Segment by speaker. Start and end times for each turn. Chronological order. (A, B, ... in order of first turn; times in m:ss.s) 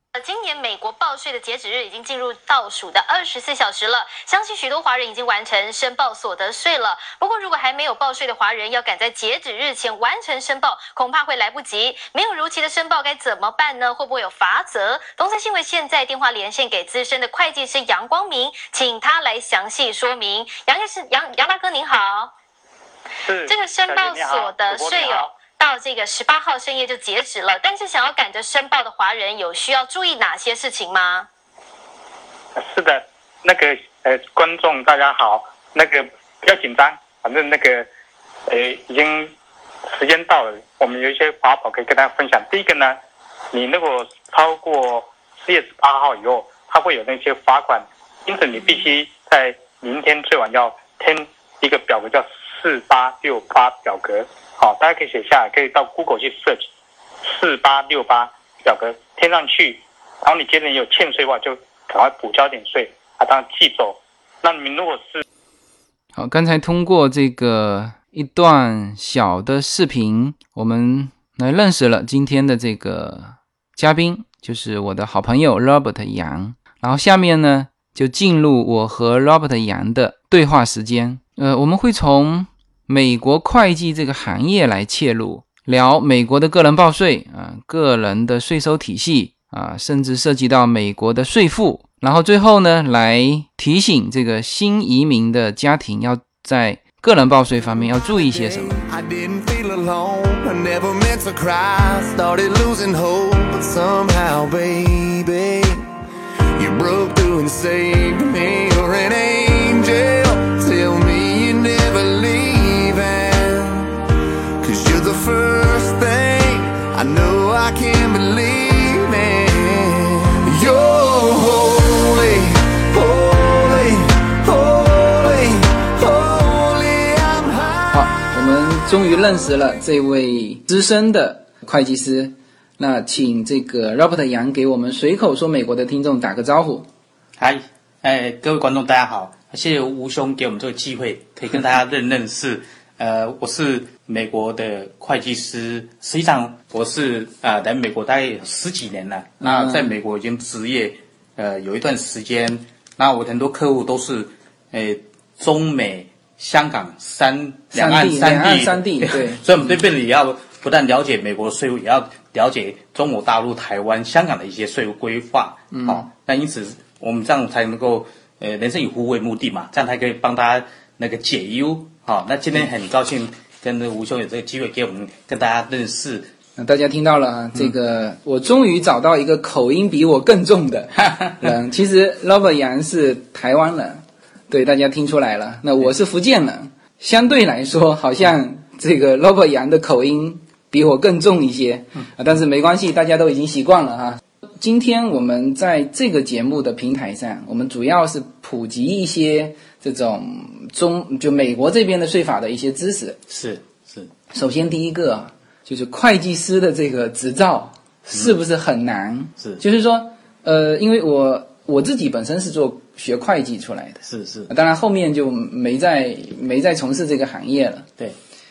0:00.1-0:22.3 A
0:23.2-0:25.3 B
0:23.5-0:31.3 A
0:32.6-0:37.9 B
0:38.5-0:39.3 B
0:39.9-0:43.0 B
0:43.5-0:56.7 B
0:57.3-1:05.2 B
1:06.2-1:38.8 C
1:38.0-1:45.9 D
1:46.6-1:54.0 D
1:54.6-2:08.1 D
2:07.9-2:16.9 C
2:17.4-2:56.3 E
2:29.4-2:29.9 C
2:37.7-2:39.4 C
2:45.7-2:46.1 C
2:56.6-3:23.2 C
3:23.3-3:24.1 E
3:24.3-3:37.9 C
3:34.0-3:34.5 E